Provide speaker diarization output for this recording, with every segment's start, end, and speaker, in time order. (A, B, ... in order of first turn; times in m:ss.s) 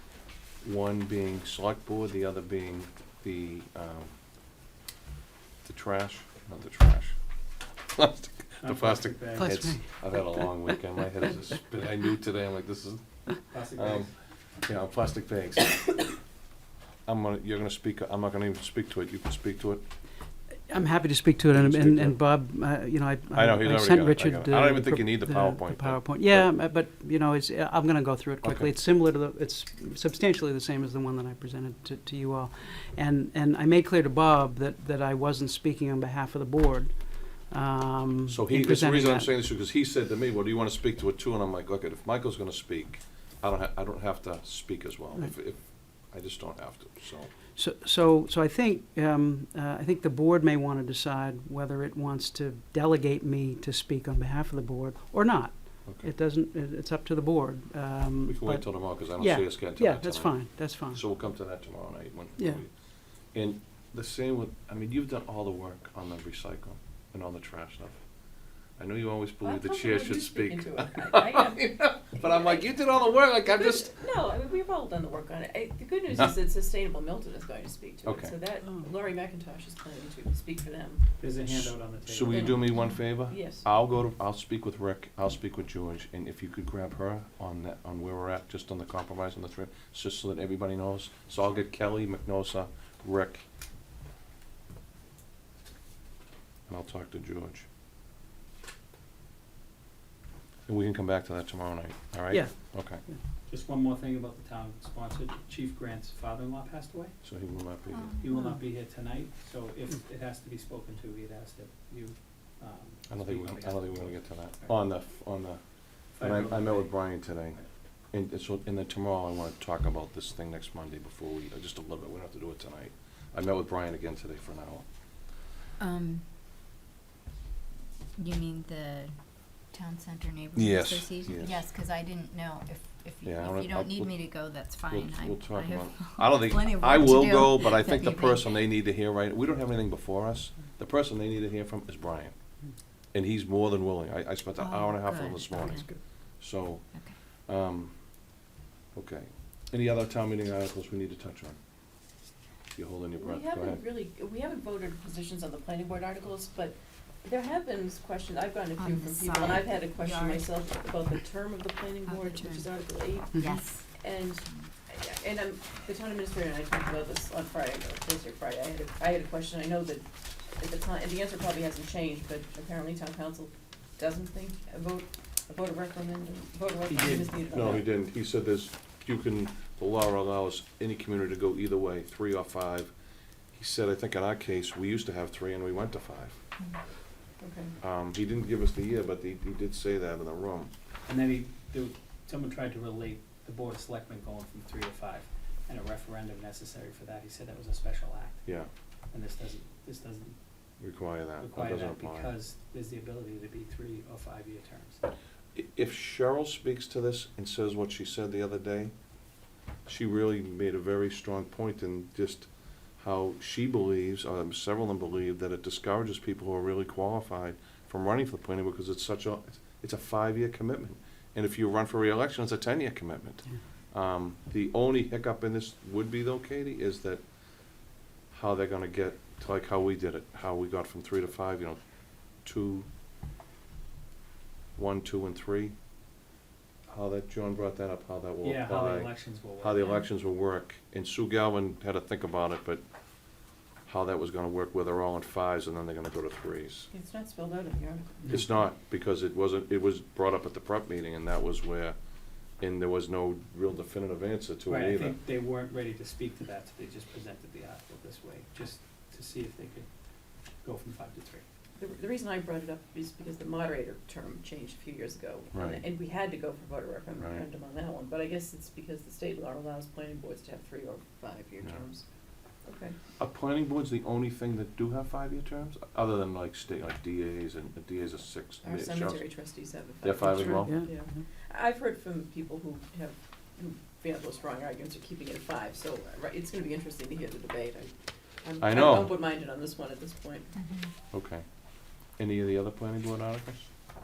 0:00.6-0:04.2 A
0:05.6-0:07.2 A
0:07.9-0:14.1 A
0:08.6-0:09.6 B
0:09.4-0:10.0 C
0:13.5-0:14.1 B
0:14.6-0:16.0 A
0:17.1-0:19.9 A
0:20.7-0:39.4 C
0:21.5-0:22.2 A
0:23.3-0:26.5 A
0:28.4-0:28.7 A
0:38.3-0:47.3 A
0:47.6-1:01.0 C
0:58.2-1:08.1 A
1:08.8-1:14.0 A
1:09.4-1:21.0 D
1:18.0-1:18.4 A
1:21.2-1:22.7 B
1:21.4-1:33.4 A
1:22.3-1:23.7 D
1:36.7-1:37.7 A
1:40.7-1:43.0 A
1:42.3-1:43.2 C
1:43.5-1:47.1 B
1:47.2-1:48.2 A
1:47.9-1:48.3 E
1:48.2-1:54.7 B
1:53.1-2:04.8 A
1:56.1-1:57.0 B
2:05.8-2:06.3 E
2:08.2-2:18.7 E
2:10.6-2:11.5 A
2:13.2-2:14.2 A
2:14.9-2:22.4 A
2:23.1-2:28.1 A
2:24.6-2:25.9 E
2:25.7-2:26.0 C
2:28.9-2:31.6 A
2:32.8-2:33.8 A
2:33.2-2:57.9 D
2:38.8-2:40.5 E
2:42.0-2:42.7 E
2:43.3-2:43.6 C
2:43.4-2:44.7 E
2:56.9-2:57.8 B
2:57.5-3:02.9 A
3:03.5-3:06.4 A
3:07.4-3:07.8 D
3:07.8-3:10.7 A
3:11.1-3:18.5 B
3:19.1-3:20.4 B
3:20.8-3:22.3 A
3:21.4-3:25.0 B
3:25.6-3:28.9 A
3:29.9-3:52.9 A
3:54.8-3:55.8 A
3:56.9-4:02.8 A
3:58.4-4:00.1 B
4:03.8-4:06.9 A
4:06.9-4:08.5 D
4:08.3-4:12.0 A
4:12.5-4:15.2 A
4:14.7-4:19.9 B
4:20.6-4:21.4 B
4:21.8-4:32.0 D
4:25.5-4:25.8 A
4:27.2-4:27.4 A
4:32.6-4:33.0 D
4:33.2-4:39.3 A
4:38.6-4:47.9 D
4:40.0-4:40.9 A
4:40.3-4:41.2 C
4:48.4-4:50.5 D
4:48.6-4:49.1 A
4:50.6-4:50.9 E
4:51.1-4:51.4 A
4:52.0-4:53.7 A